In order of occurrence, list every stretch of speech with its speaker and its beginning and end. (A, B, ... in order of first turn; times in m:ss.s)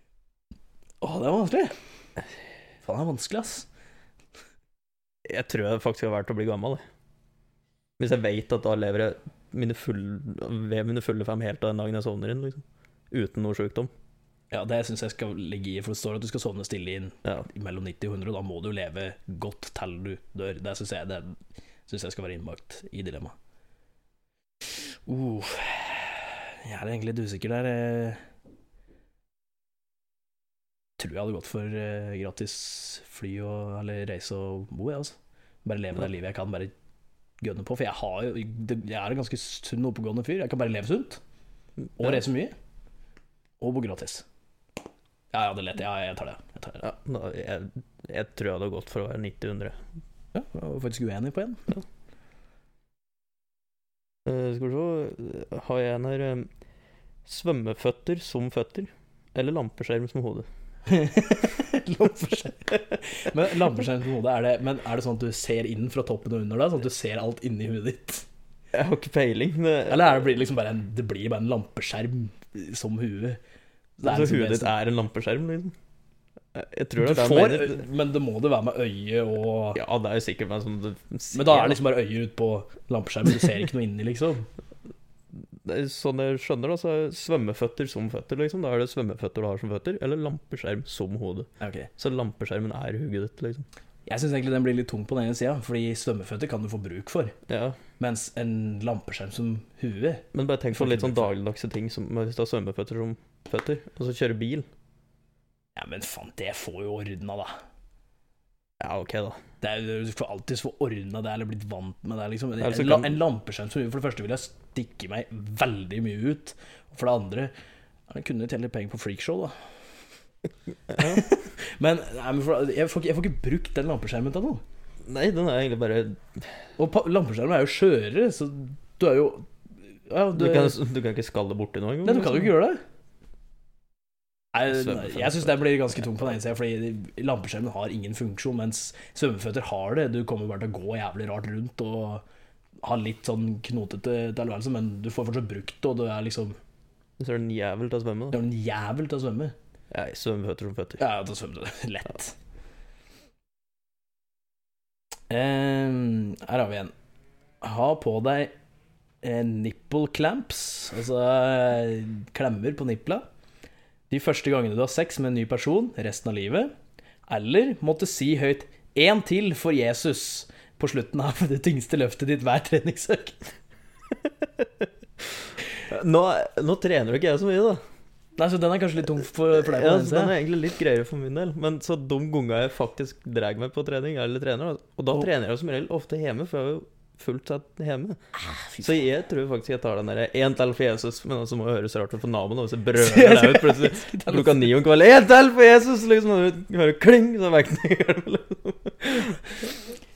0:01.0-0:01.7 A
0:02.8-0:03.7 A
0:05.3-0:06.8 B
0:08.0-0:13.9 B
0:14.5-0:23.4 A
0:25.1-0:28.2 A
0:31.0-0:36.7 A
0:37.4-0:41.2 A
0:42.0-0:42.5 A
0:43.6-0:44.2 A
0:45.3-0:46.8 A
0:46.8-0:49.8 B
0:50.3-0:51.7 A
0:54.3-0:56.5 B
0:57.3-1:00.5 B
1:00.9-1:08.2 A
1:08.7-1:10.3 B
1:09.9-1:13.4 A
1:14.0-1:14.7 A
1:14.0-1:15.7 B
1:16.5-1:17.8 B
1:17.0-1:19.8 A
1:19.8-1:21.8 B
1:21.3-1:24.5 A
1:25.6-1:33.6 B
1:31.6-1:31.9 A
1:34.1-1:37.4 A
1:37.5-1:37.8 B
1:38.0-1:41.3 A
1:40.3-1:44.7 B
1:45.8-1:47.5 A
1:48.8-1:49.4 B
1:49.6-1:57.5 A
1:52.6-1:53.2 B
1:58.1-1:59.5 A
2:00.9-2:01.3 B
2:01.0-2:04.6 A
2:05.0-2:06.5 B
2:06.8-2:09.5 A
2:10.1-2:10.8 A
2:10.3-2:12.6 B
2:12.0-2:12.8 A
2:14.5-2:22.2 A
2:14.7-2:15.6 B
2:22.8-2:26.6 A
2:27.2-2:28.4 B
2:28.3-2:29.6 A
2:29.9-2:31.0 B
2:31.0-2:32.4 A
2:35.3-2:36.9 A
2:37.6-2:38.5 A
2:39.2-2:43.2 A
2:44.1-2:46.7 A
2:47.3-2:53.4 A
2:54.4-2:54.9 B
2:55.9-2:57.8 B
2:58.4-3:00.4 A
2:59.6-3:08.2 B
3:08.4-3:08.9 A
3:08.8-3:19.4 B
3:13.0-3:14.7 A